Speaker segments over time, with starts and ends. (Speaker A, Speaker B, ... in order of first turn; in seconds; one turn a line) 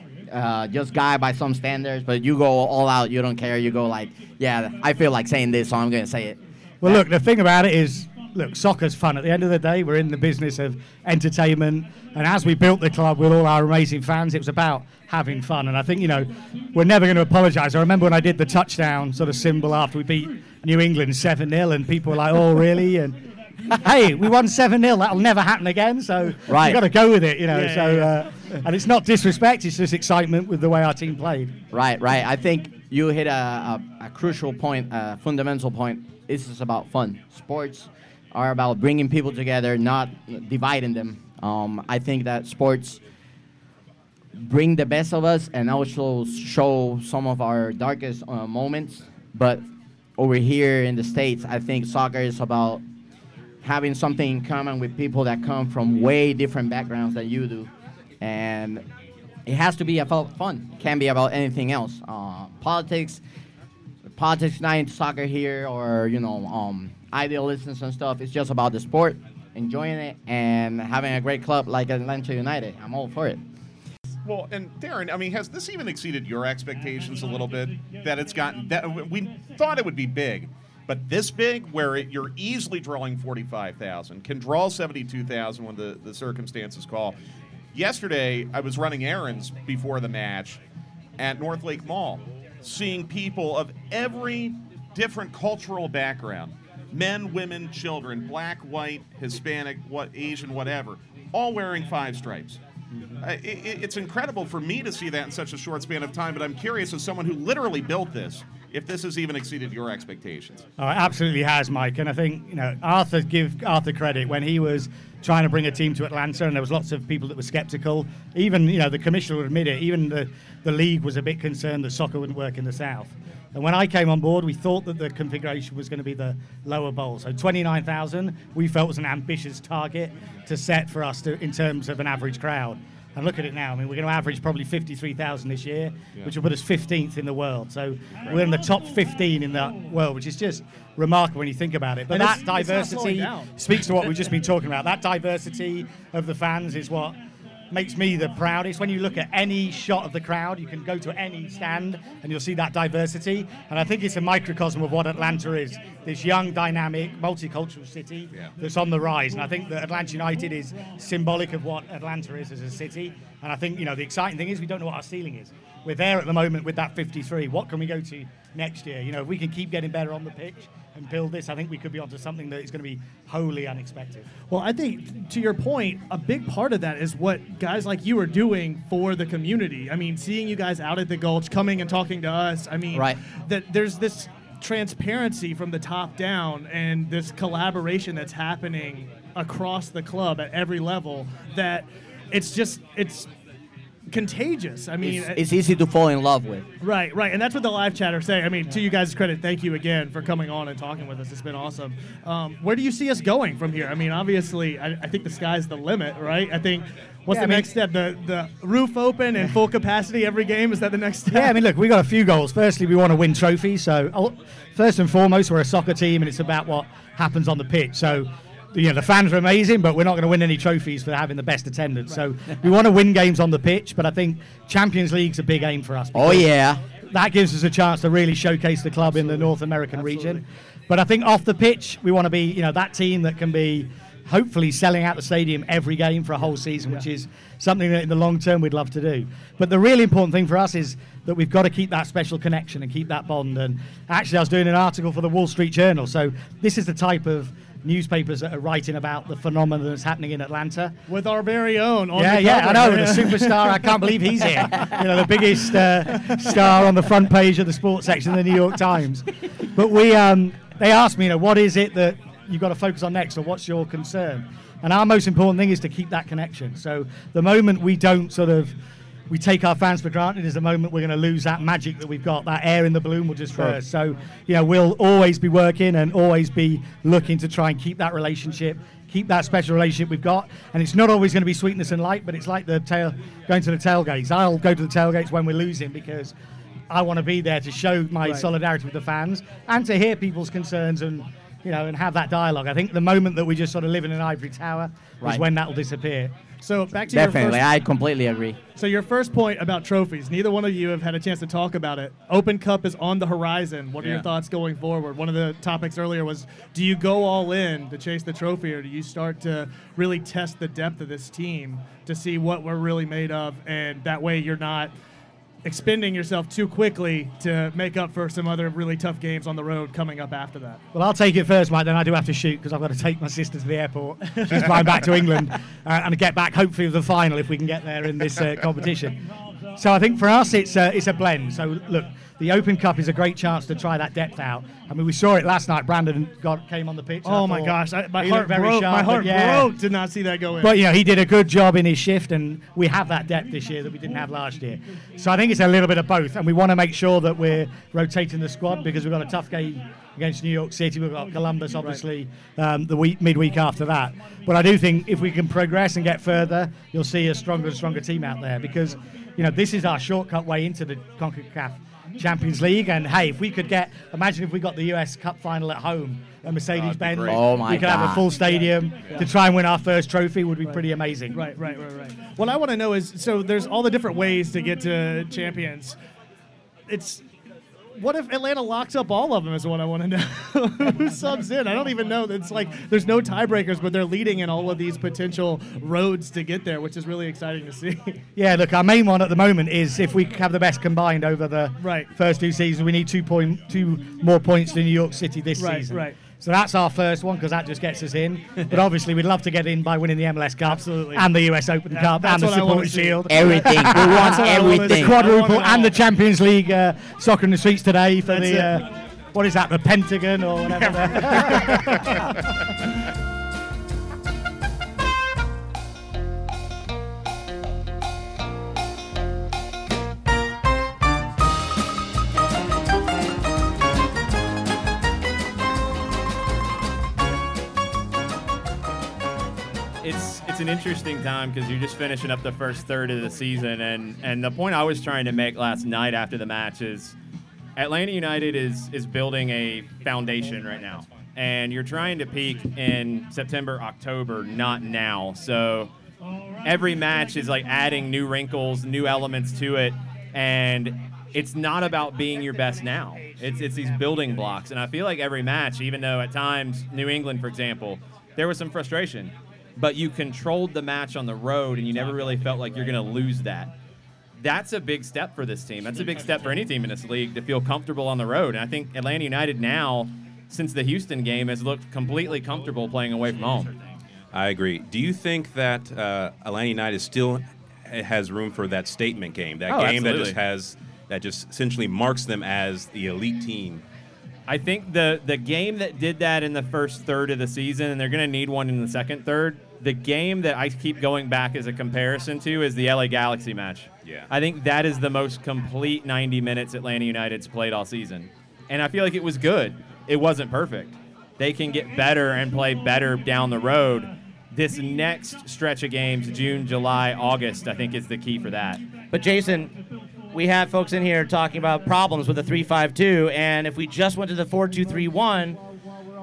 Speaker A: 0.3-7.0
Speaker B: 6.8-23.2
Speaker B: 23.7-31.6
Speaker A: 26.5-26.8
Speaker C: 27.5-28.1
Speaker A: 31.7-43.0
Speaker A: 44.3-49.6
Speaker A: 50.2-52.8
Speaker A: 53.6-57.7
Speaker A: 58.2-58.8
Speaker A: 59.5-63.2
Speaker A: 64.0-73.4
Speaker D: 74.2-87.2
Speaker D: 87.7-90.6
Speaker D: 91.2-102.6
Speaker D: 103.2-110.7
Speaker B: 110.8-147.2
Speaker C: 142.1-143.8
Speaker B: 147.7-174.3
Speaker C: 174.5-193.3
Speaker A: 182.9-183.2
Speaker C: 194.1-195.4
Speaker A: 195.0-196.7
Speaker C: 196.8-211.5
Speaker B: 207.3-207.7
Speaker B: 211.3-226.5
Speaker A: 226.1-226.8
Speaker B: 227.1-250.9
Speaker C: 229.9-230.3
Speaker C: 251.1-253.9
Speaker B: 252.1-268.7
Speaker C: 256.1-256.8
Speaker B: 269.3-286.3
Speaker B: 286.9-296.3
Speaker C: 296.6-297.6
Speaker A: 297.1-298.6
Speaker C: 298.8-314.9
Speaker C: 315.6-320.8
Speaker B: 320.9-329.2
Speaker B: 329.8-339.7
Speaker C: 337.2-340.8
Speaker B: 340.6-371.4
Speaker D: 366.7-367.4
Speaker A: 367.2-368.3
Speaker C: 368.4-369.3
Speaker C: 370.6-375.9
Speaker C: 376.9-377.2
Speaker C: 377.9-388.2
Speaker B: 388.4-412.4
Speaker C: 391.8-392.1
Speaker C: 395.6-396.2
Speaker C: 400.6-401.2
Speaker C: 401.9-406.0
Speaker A: 403.3-405.2
Speaker C: 408.2-408.8
Speaker C: 410.8-412.1
Speaker E: 430.0-437.1
Speaker E: 437.8-445.9
Speaker E: 446.6-463.7
Speaker E: 464.4-473.7
Speaker F: 474.3-483.8
Speaker E: 479.7-480.4
Speaker E: 484.5-508.8
Speaker F: 494.0-494.3
Speaker G: 509.1-509.7
Speaker G: 510.3-515.6